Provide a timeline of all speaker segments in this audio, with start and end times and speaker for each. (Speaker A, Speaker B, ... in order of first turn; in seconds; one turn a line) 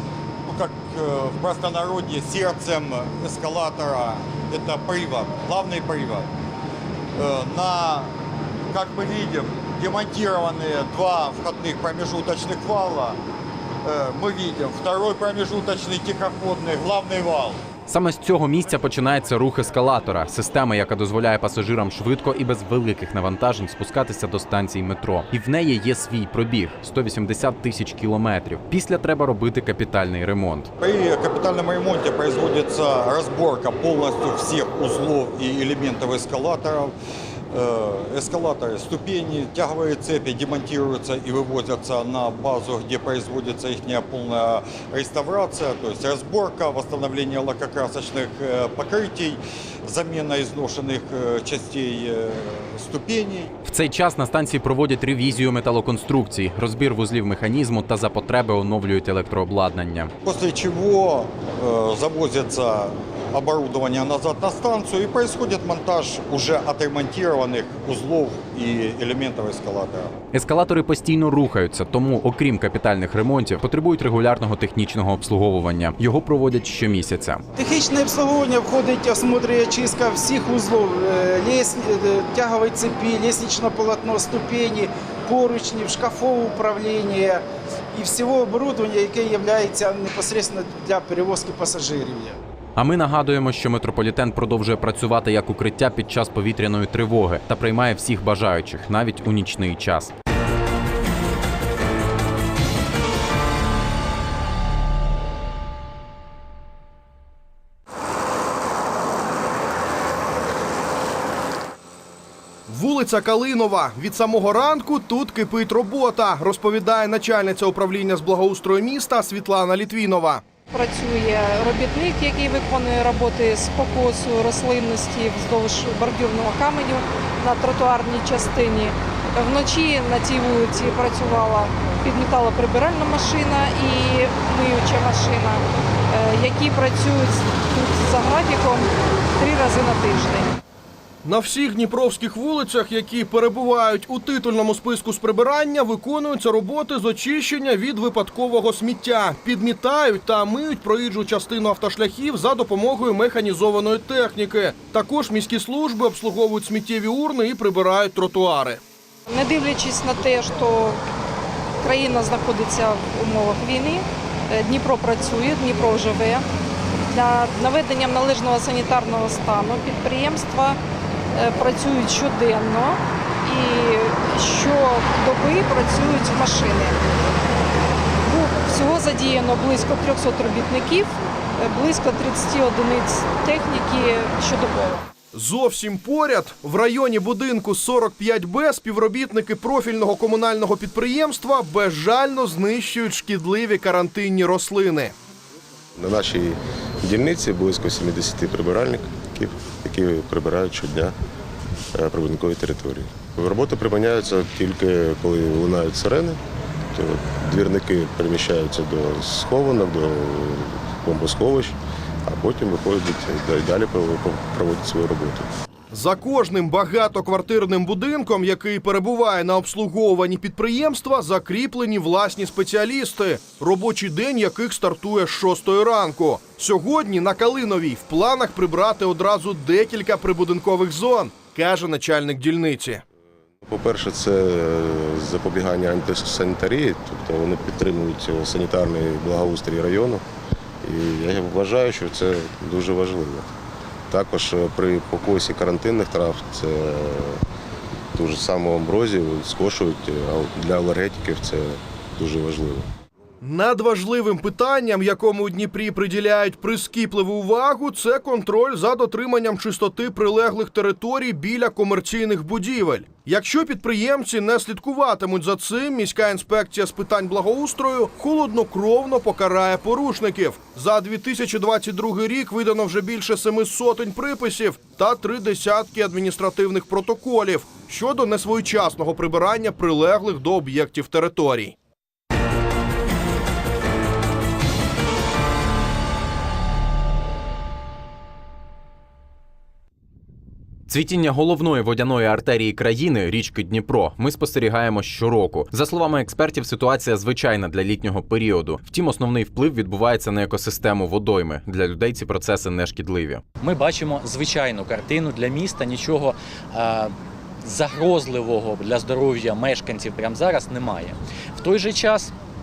Speaker A: 0.5-6.3
Speaker A: 7.1-8.1
Speaker A: 8.7-13.2
Speaker A: 13.8-17.6
Speaker B: 17.9-30.7
Speaker A: 30.8-36.9
Speaker A: 37.5-53.5
Speaker B: 53.7-60.1
Speaker A: 60.2-70.1
Speaker B: 70.3-77.4
Speaker C: 77.5-92.4
Speaker B: 92.8-100.1
Speaker D: 112.7-120.4
Speaker E: 120.7-140.5
Speaker D: 141.2-158.8
Speaker E: 159.3-161.0
Speaker E: 161.8-166.4
Speaker E: 167.1-170.8
Speaker E: 171.3-177.0
Speaker E: 178.2-185.0
Speaker D: 185.3-195.1
Speaker F: 196.0-201.1
Speaker F: 201.9-206.4
Speaker F: 206.9-215.5
Speaker D: 215.9-233.0
Speaker F: 233.6-240.2
Speaker F: 240.8-243.4
Speaker F: 244.1-247.4
Speaker F: 248.1-252.9
Speaker D: 253.4-281.7
Speaker B: 290.9-303.4
Speaker G: 303.6-307.1
Speaker G: 307.6-312.3